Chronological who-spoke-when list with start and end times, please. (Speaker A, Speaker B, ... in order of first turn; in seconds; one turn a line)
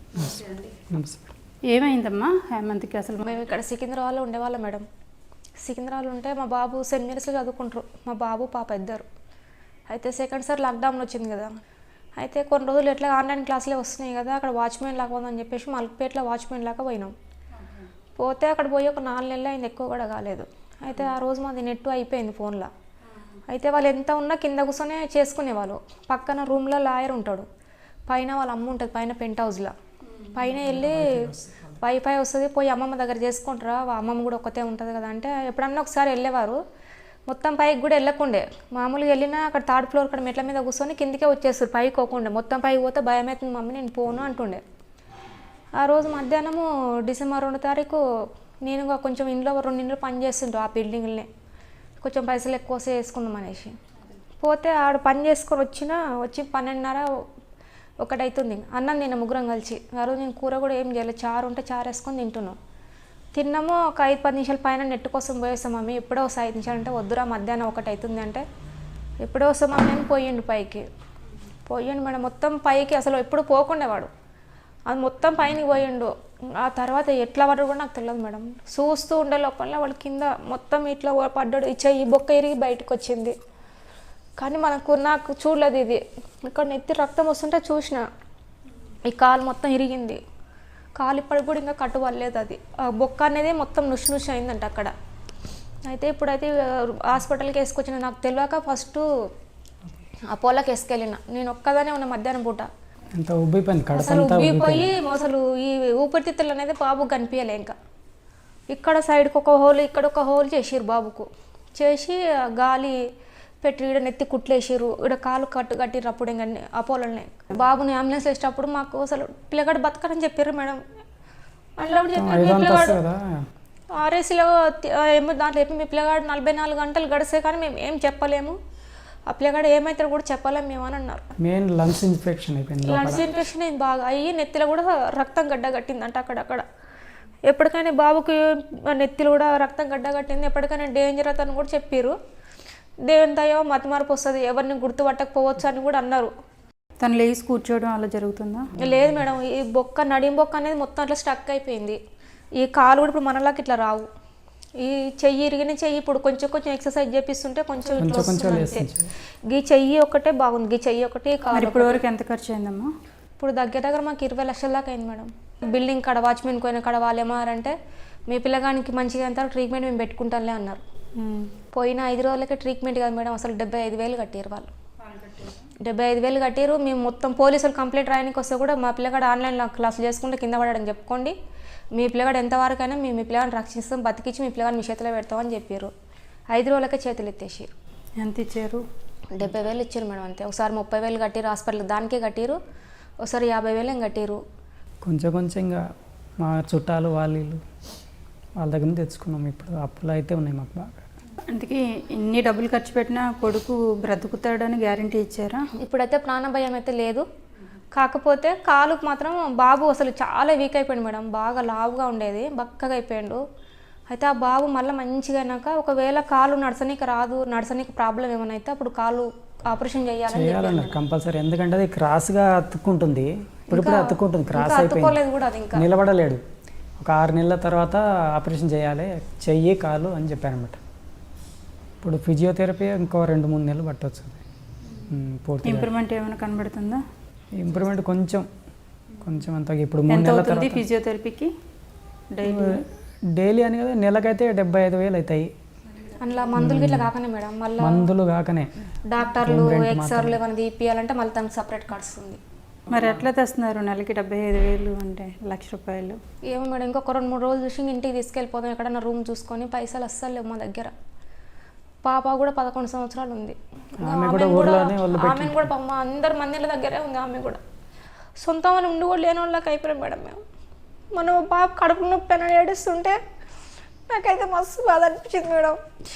Speaker A: 0.1-0.8
Speaker B: 0.9-1.3
Speaker A: 1.7-3.4
Speaker C: 3.2-4.8
Speaker C: 5.6-9.1
Speaker C: 9.9-11.5
Speaker C: 12.2-17.1
Speaker A: 17.6-17.9
Speaker C: 18.2-22.7
Speaker C: 23.5-27.5
Speaker C: 28.1-29.7
Speaker C: 30.3-36.6
Speaker C: 37.3-44.6
Speaker C: 45.8-48.0
Speaker C: 48.6-51.3
Speaker C: 52.0-53.7
Speaker C: 54.4-57.1
Speaker C: 58.0-62.6
Speaker C: 63.4-68.5
Speaker C: 69.2-70.9
Speaker C: 71.7-74.1
Speaker C: 74.9-83.4
Speaker C: 84.4-88.0
Speaker C: 89.1-90.2
Speaker C: 91.0-94.9
Speaker C: 95.9-99.1
Speaker C: 100.3-102.7
Speaker B: 103.1-104.9
Speaker C: 103.9-107.8
Speaker C: 108.7-113.0
Speaker C: 113.6-120.8
Speaker C: 121.8-123.0
Speaker B: 122.1-123.5
Speaker C: 123.9-128.6
Speaker C: 129.3-131.3
Speaker B: 131.4-133.2
Speaker C: 132.9-136.7
Speaker C: 137.5-142.2
Speaker C: 143.1-146.3
Speaker A: 147.0-148.7
Speaker C: 148.8-152.0
Speaker C: 152.6-154.1
Speaker C: 154.8-158.9
Speaker B: 158.0-159.1
Speaker C: 159.5-162.0
Speaker A: 161.5-162.9
Speaker C: 163.4-167.8
Speaker C: 168.3-170.8
Speaker A: 171.2-171.6
Speaker C: 171.7-174.7
Speaker A: 175.0-175.7
Speaker C: 175.8-181.3
Speaker C: 181.9-185.9
Speaker C: 186.5-187.7
Speaker A: 188.2-188.8
Speaker C: 189.3-192.6
Speaker C: 193.2-194.4
Speaker B: 195.0-195.8
Speaker B: 196.4-197.6
Speaker B: 198.6-201.0
Speaker A: 201.5-205.7
Speaker C: 205.8-207.3
Speaker C: 207.9-213.4
Speaker C: 214.1-221.0
Speaker B: 220.3-225.2
Speaker C: 223.7-225.9
Speaker B: 225.7-226.4
Speaker B: 227.0-230.8
Speaker B: 232.0-234.4
Speaker B: 235.1-235.9
Speaker A: 235.6-237.0
Speaker B: 237.6-238.5
Speaker B: 239.2-240.8
Speaker A: 240.1-241.5
Speaker A: 242.3-242.8
Speaker B: 242.4-245.5
Speaker C: 246.2-248.1
Speaker B: 246.6-247.1
Speaker B: 247.8-248.7
Speaker C: 249.1-252.4
Speaker B: 249.4-250.4
Speaker A: 252.9-256.2
Speaker C: 256.5-260.9
Speaker C: 262.1-267.6
Speaker B: 264.0-265.7
Speaker C: 268.4-270.4
Speaker C: 271.1-273.2
Speaker C: 274.1-275.8